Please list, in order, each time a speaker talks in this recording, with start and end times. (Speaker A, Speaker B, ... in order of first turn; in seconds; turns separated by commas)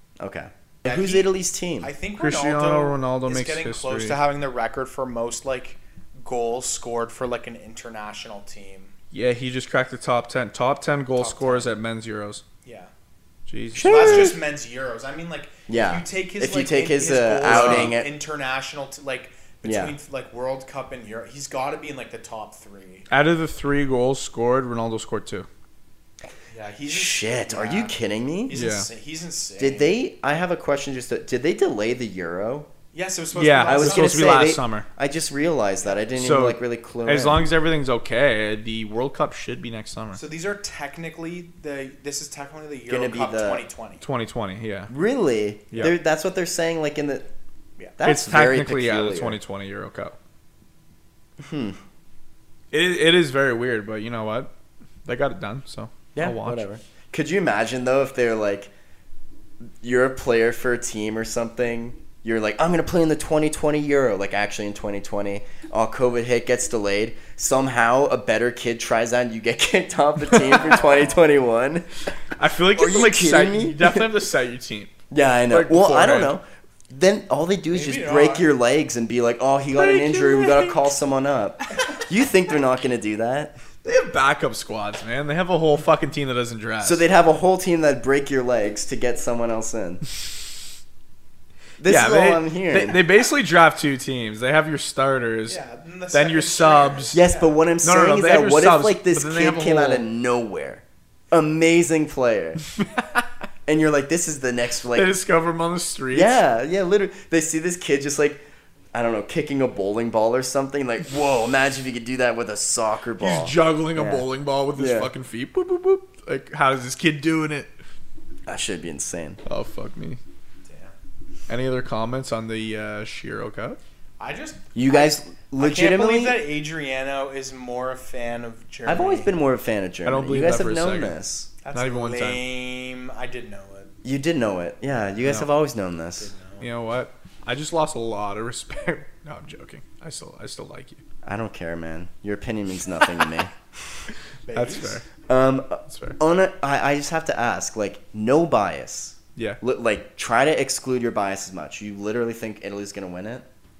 Speaker A: 0.2-1.9, Speaker B: 0.8-8.9, Speaker C: 2.2-4.2, Speaker C: 9.1-12.4, Speaker B: 11.1-11.7, Speaker B: 12.6-12.9, Speaker C: 13.5-14.3, Speaker A: 13.7-14.4, Speaker B: 13.8-23.1, Speaker A: 15.7-18.1, Speaker C: 17.4-18.0, Speaker A: 19.6-19.9, Speaker C: 23.1-25.5, Speaker B: 26.5-29.9, Speaker A: 26.9-28.6, Speaker C: 28.5-28.9, Speaker A: 29.6-32.7, Speaker B: 32.9-34.4, Speaker C: 33.3-34.9, Speaker A: 33.7-37.5, Speaker C: 36.1-40.2, Speaker B: 40.1-44.0, Speaker A: 42.9-43.6, Speaker C: 44.0-44.9, Speaker A: 44.9-47.3, Speaker A: 48.0-49.4, Speaker C: 48.0-50.1, Speaker A: 51.4-51.8, Speaker C: 52.7-54.5, Speaker C: 55.0-56.6, Speaker A: 56.1-58.7, Speaker A: 59.8-71.9, Speaker B: 70.4-71.3, Speaker C: 72.4-74.9, Speaker A: 72.7-74.1, Speaker A: 75.1-83.6, Speaker C: 75.5-76.3, Speaker B: 77.7-78.5, Speaker C: 79.7-80.9, Speaker C: 83.8-87.0, Speaker A: 86.8-90.0, Speaker A: 91.8-93.0, Speaker C: 91.8-95.6, Speaker B: 95.5-97.5, Speaker C: 96.1-97.2, Speaker A: 97.1-102.6, Speaker C: 97.8-100.0, Speaker A: 103.7-105.1, Speaker C: 104.9-106.4, Speaker A: 106.1-108.4, Speaker A: 108.9-115.1, Speaker C: 113.2-117.7, Speaker A: 118.5-119.4, Speaker C: 119.5-120.2, Speaker B: 120.7-120.9, Speaker C: 121.5-123.8, Speaker B: 124.2-129.3, Speaker A: 124.7-126.4, Speaker A: 128.9-131.5, Speaker C: 130.1-131.2, Speaker B: 131.6-133.9, Speaker C: 131.7-132.4, Speaker A: 134.0-136.3, Speaker C: 135.2-135.5, Speaker B: 136.2-136.7, Speaker C: 136.6-141.0, Speaker A: 141.2-144.0, Speaker B: 144.4-145.0, Speaker C: 144.5-145.1, Speaker A: 145.3-153.4, Speaker C: 145.9-146.2